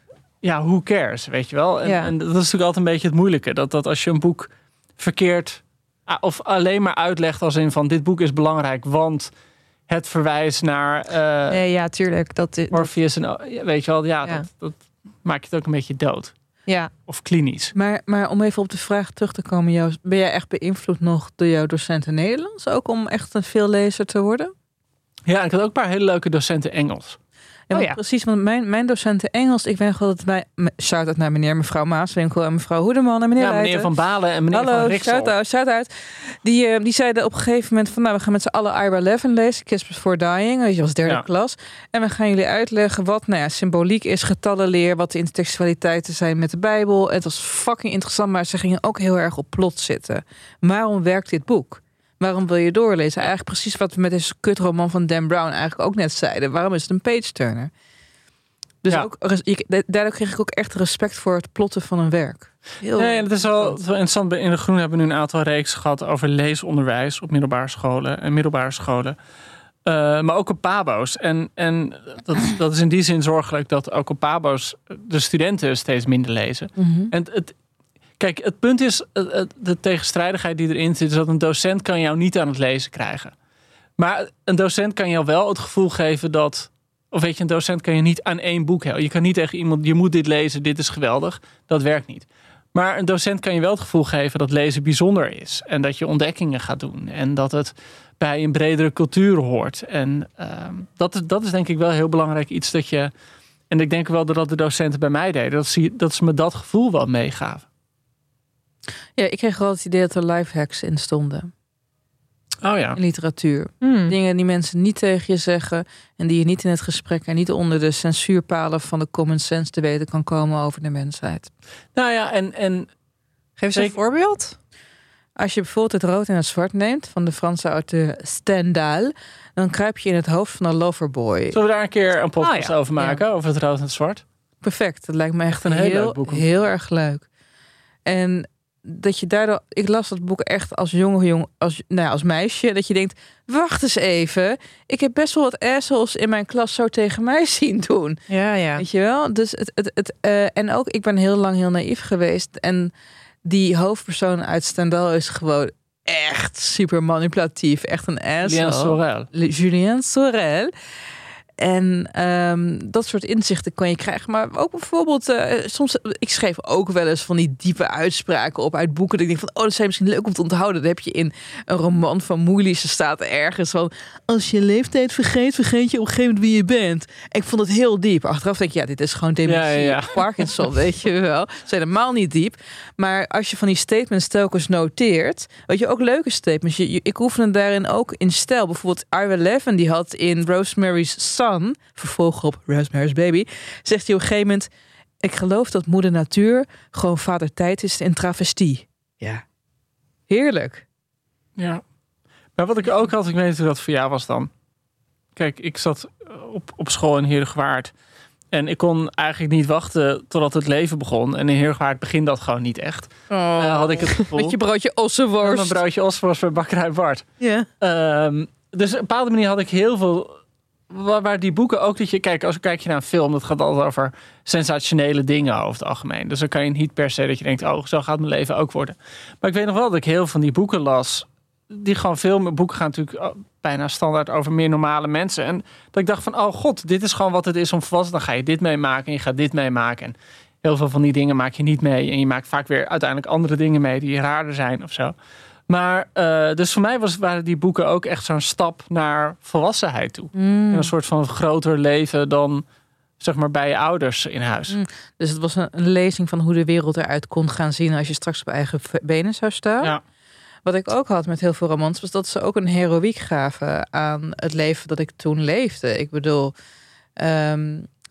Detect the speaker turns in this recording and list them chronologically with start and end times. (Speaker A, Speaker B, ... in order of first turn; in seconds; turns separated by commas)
Speaker A: 0.4-9.3, Speaker B: 1.8-2.1, Speaker A: 9.9-11.6, Speaker B: 11.5-12.9, Speaker A: 12.7-16.3, Speaker A: 17.1-17.7, Speaker C: 17.7-24.5, Speaker A: 25.3-27.2, Speaker C: 27.7-33.9, Speaker B: 27.7-28.0, Speaker A: 33.4-35.3, Speaker C: 34.5-57.7, Speaker C: 58.8-63.8, Speaker A: 63.0-69.2, Speaker A: 69.8-77.5, Speaker C: 76.8-77.1, Speaker A: 78.2-83.3, Speaker A: 84.0-103.1, Speaker A: 103.7-107.6, Speaker C: 109.2-111.5, Speaker A: 112.6-113.0, Speaker C: 112.9-121.5, Speaker B: 113.8-114.1, Speaker A: 121.9-122.9, Speaker B: 123.6-124.5, Speaker C: 125.4-131.6, Speaker A: 131.5-134.2, Speaker B: 132.4-132.7, Speaker C: 134.6-137.2, Speaker A: 135.6-136.4, Speaker C: 138.1-148.2, Speaker B: 148.3-148.8, Speaker C: 148.8-152.9, Speaker C: 153.4-160.7, Speaker A: 158.4-159.3, Speaker C: 161.6-194.7, Speaker A: 179.4-180.6, Speaker C: 195.2-199.4, Speaker C: 200.3-200.8, Speaker A: 201.6-201.8, Speaker A: 202.6-204.5, Speaker A: 205.3-207.9, Speaker A: 208.5-214.6, Speaker C: 213.3-215.8, Speaker A: 215.4-217.2, Speaker C: 217.4-217.7, Speaker A: 217.8-220.3, Speaker A: 220.9-245.1, Speaker A: 245.7-252.6, Speaker C: 250.3-250.9, Speaker A: 253.2-254.8, Speaker C: 254.7-259.9, Speaker C: 260.6-266.6, Speaker C: 267.2-267.9